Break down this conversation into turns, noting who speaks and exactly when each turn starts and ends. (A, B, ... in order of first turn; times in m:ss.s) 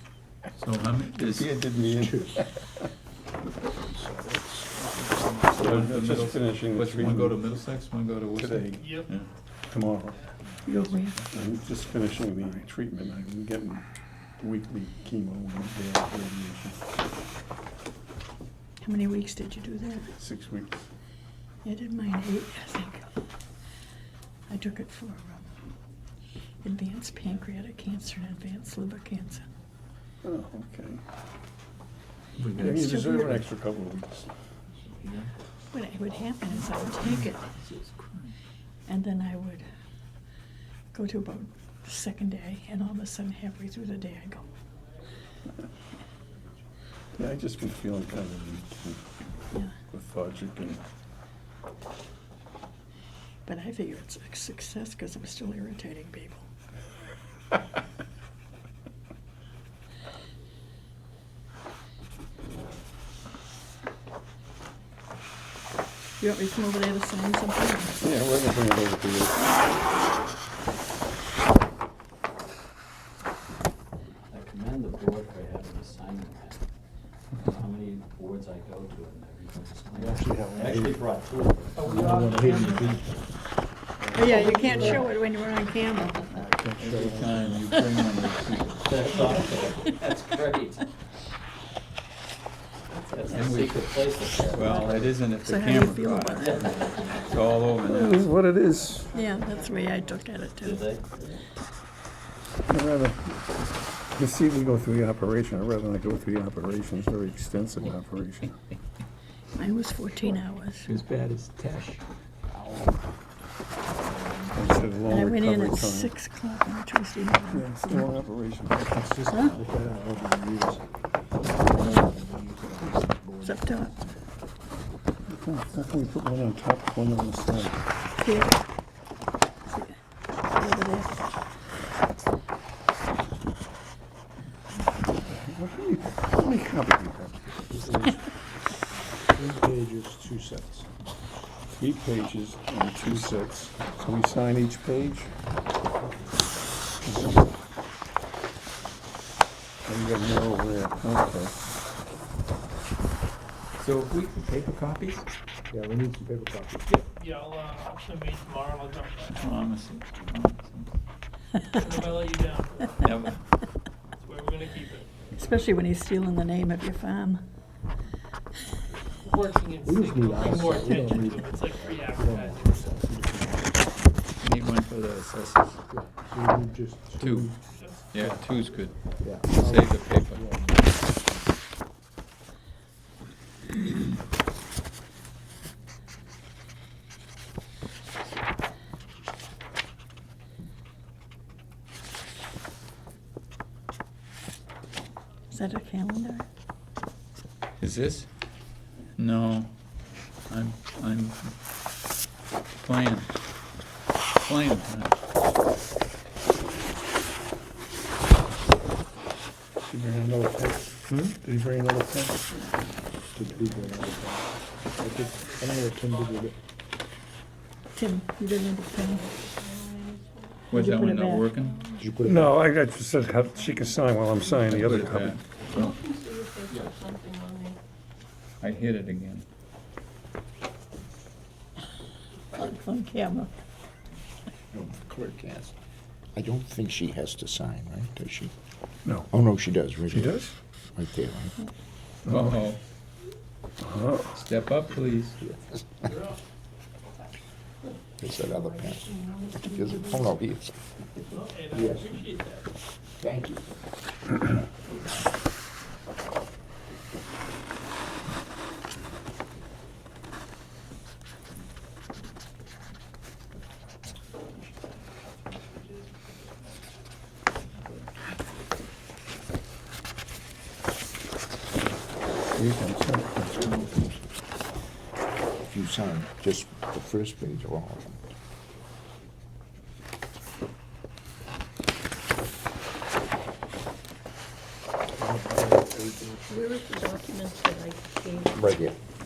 0:00.6-0:01.6 A
0:01.2-0:02.7 B
0:01.9-0:02.3 C
0:03.9-0:05.7 C
0:05.5-0:09.4 A
0:05.6-0:07.4 B
0:08.4-0:10.3 B
0:08.8-0:09.0 D
0:10.6-0:11.2 E
0:11.2-0:16.8 B
0:18.8-0:20.1 E
0:20.0-0:20.8 B
0:21.6-0:23.1 E
0:24.5-0:25.5 E
0:26.6-0:29.5 E
0:30.2-0:31.0 B
0:32.5-0:34.3 B
0:32.7-0:33.4 E
0:35.0-0:35.3 F
0:35.7-0:37.5 E
0:37.8-0:38.2 A
0:38.9-0:39.6 E
0:40.9-0:44.5 E
0:47.2-0:49.0 B
0:49.8-0:50.8 B
0:53.5-0:56.5 E
1:06.2-1:08.0 E
1:08.0-1:09.6 B
1:14.3-1:22.0 F
1:19.9-1:23.2 C
1:22.0-1:22.8 D
1:22.6-1:22.9 G
1:24.0-1:25.1 C
1:24.2-1:26.4 E
1:24.7-1:25.0 G
1:26.3-1:27.7 C
1:26.8-1:29.2 A
1:28.8-1:30.9 F
1:33.1-1:35.3 F
1:33.4-1:36.8 A
1:35.4-1:36.8 E
1:36.3-1:37.7 F
1:37.3-1:38.4 A
1:37.8-1:39.1 B
1:39.1-1:40.9 E
1:39.1-1:40.3 G
1:40.6-1:41.2 F
1:42.7-1:43.4 B
1:44.1-1:48.6 B
1:49.6-1:50.9 E
1:50.9-1:52.0 A
1:54.0-1:55.1 F
1:54.5-1:56.1 B
1:55.1-1:58.1 E
1:57.5-1:58.9 B
1:58.8-2:03.7 C
1:59.3-1:59.6 E
2:03.4-2:04.0 E
2:05.3-2:07.9 B
2:08.2-2:08.6 E
2:09.7-2:10.0 E
2:10.5-2:11.2 E
2:15.2-2:18.2 B
2:19.3-2:20.9 C
2:21.7-2:25.4 B
2:23.0-2:23.4 C
2:27.0-2:27.5 B
2:29.8-2:31.6 B
2:33.8-2:35.3 A
2:35.7-2:36.9 C
2:36.9-2:39.3 D
2:39.4-2:41.0 A
2:41.9-2:42.8 D
2:43.0-2:43.6 A
2:44.2-2:45.1 D
2:45.3-2:47.5 E
2:49.3-2:52.7 D
2:49.8-2:54.1 C
2:54.4-2:55.8 A
2:55.9-2:58.4 C
2:57.2-3:00.5 A
2:57.8-2:58.0 D
2:59.2-3:01.5 C
3:15.5-3:16.4 E
3:17.8-3:21.8 A
3:22.8-3:23.8 A
3:24.4-3:25.2 A
3:29.8-3:32.7 B
3:33.3-3:36.6 C
3:33.7-3:34.0 D
3:34.8-3:36.2 D
3:37.9-3:39.3 E
3:39.0-3:40.7 G
3:40.7-3:41.9 A
3:40.7-3:41.5 E
3:41.5-3:42.0 G
3:42.0-3:42.6 C
3:42.2-3:45.4 B
3:44.7-3:45.9 A
3:45.6-3:47.8 G
3:48.6-3:49.5 A
3:52.5-3:53.5 E
3:54.7-3:55.7 H
3:56.3-3:58.5 H
3:59.3-4:01.6 H
4:00.1-4:00.5 B
4:02.3-4:02.7 B
4:02.3-4:02.8 A
4:03.8-4:04.4 B
4:04.3-4:05.4 A
4:08.2-4:10.8 H
4:08.4-4:10.4 G
4:11.5-4:12.5 D
4:11.7-4:12.3 C
4:13.2-4:13.7 H
4:32.5-4:33.7 B
4:35.6-4:38.2 H
4:45.2-4:46.7 C
4:46.5-4:48.6 G
4:48.5-4:49.0 H